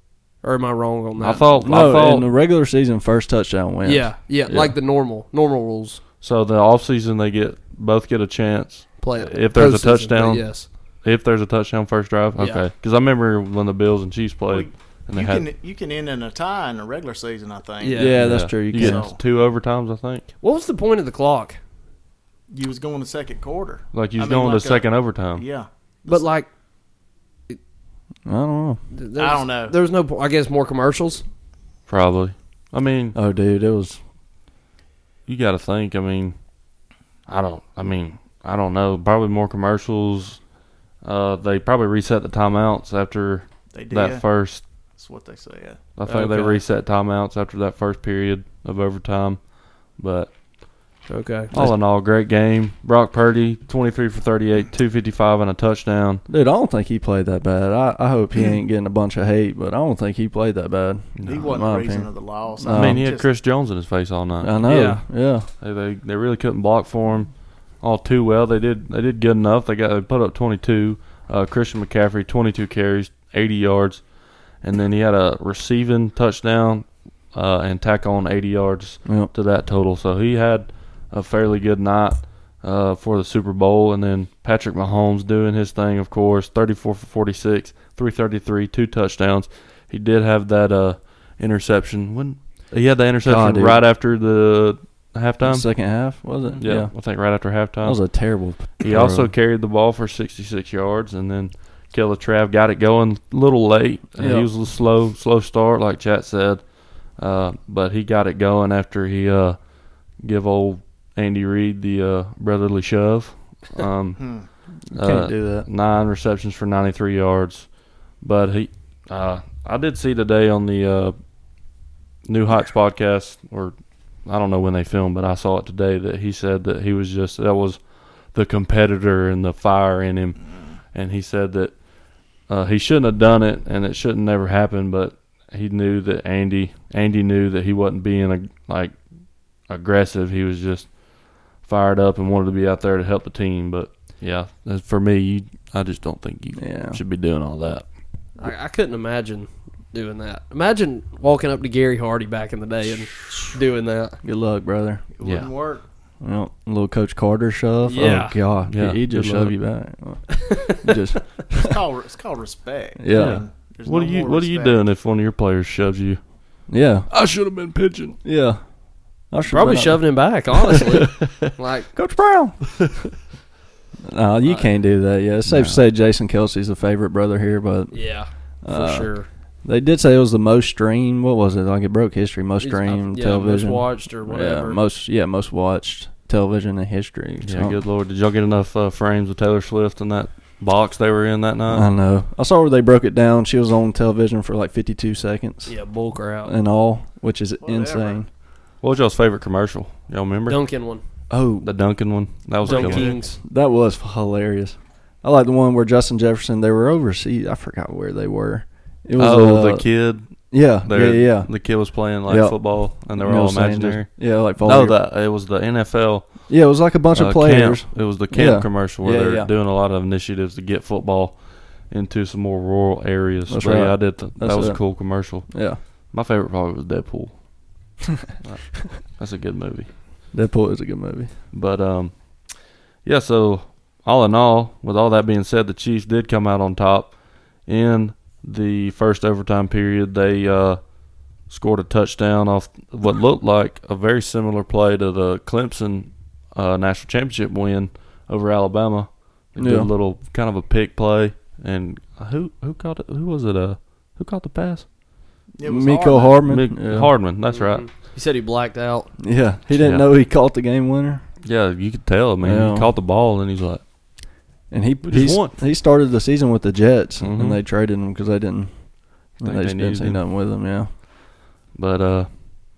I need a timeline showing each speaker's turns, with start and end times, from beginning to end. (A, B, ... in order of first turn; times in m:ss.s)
0:00.4-0:01.7 A
0:01.2-0:02.3 B
0:01.6-0:04.8 C
0:03.8-0:06.0 A
0:06.2-0:15.5 B
0:09.0-0:10.7 A
0:12.4-0:12.7 A
0:14.5-0:18.2 D
0:17.8-0:18.2 A
0:18.0-0:19.0 C
0:18.2-0:20.3 B
0:18.8-0:19.2 D
0:20.4-0:21.6 A
0:22.5-0:26.3 D
0:23.9-0:25.4 B
0:26.1-0:26.5 A
0:28.3-0:28.8 C
0:28.9-0:31.2 A
0:29.2-0:29.8 D
0:31.9-0:33.2 B
0:33.1-0:34.0 C
0:35.3-0:36.4 B
0:37.3-0:40.4 B
0:41.0-0:44.6 B
0:43.7-0:44.2 D
0:44.9-0:45.8 D
0:46.0-0:50.8 B
0:46.1-0:46.6 A
0:51.1-0:51.5 A
0:51.5-0:56.2 B
0:56.3-1:03.0 C
1:01.2-1:01.5 B
1:01.3-1:03.3 D
1:02.7-1:04.5 B
1:04.4-1:05.5 C
1:04.6-1:05.0 A
1:05.6-1:35.7 B
1:19.0-1:19.3 C
1:33.2-1:33.8 C
1:35.4-1:37.3 C
1:36.6-2:01.2 B
1:37.8-1:39.3 C
1:44.2-1:44.5 C
1:54.2-1:54.5 D
1:54.9-1:55.7 C
2:02.2-2:11.8 B
2:12.5-2:19.0 B
2:19.6-2:27.9 B
2:26.6-2:27.0 C
2:28.4-2:34.2 A
2:34.2-2:35.0 C
2:35.2-2:35.9 D
2:35.2-2:35.5 B
2:36.2-2:41.8 C
2:37.8-2:38.4 A
2:38.6-2:39.6 B
2:40.4-2:40.8 A
2:41.5-2:44.8 D
2:43.0-2:43.4 C
2:43.1-2:46.2 B
2:46.7-2:47.1 C
2:47.1-2:48.2 B
2:48.2-2:50.3 C
2:49.5-2:51.9 A
2:51.9-2:52.8 C
2:54.0-3:07.8 C
2:54.4-2:54.7 A
2:55.4-2:55.8 B
2:57.9-2:59.3 A
3:02.6-3:04.8 A
3:07.4-3:11.9 B
3:11.7-3:15.8 C
3:15.7-3:16.5 A
3:16.4-3:18.3 C
3:17.6-3:18.2 D
3:18.8-3:20.6 B
3:20.5-3:21.0 A
3:21.3-3:21.7 C
3:21.6-3:23.1 B
3:22.6-3:23.4 A
3:22.7-3:31.7 C
3:29.2-3:36.5 B
3:32.2-3:35.0 C
3:36.5-3:39.5 C
3:37.1-3:47.4 B
3:43.5-3:45.8 C
3:48.4-3:50.0 B
3:50.3-3:51.4 C
3:51.5-4:14.9 B
4:09.6-4:09.9 C
4:15.6-4:16.4 D
4:15.6-4:17.1 C
4:16.4-4:17.9 B
4:17.5-4:19.1 A
4:19.2-4:21.2 C
4:19.8-4:20.0 B
4:21.4-4:23.8 B
4:22.4-4:22.9 C
4:24.7-4:31.0 C
4:25.0-4:25.6 B
4:27.2-4:27.6 B
4:29.4-4:30.2 B
4:31.7-4:32.3 B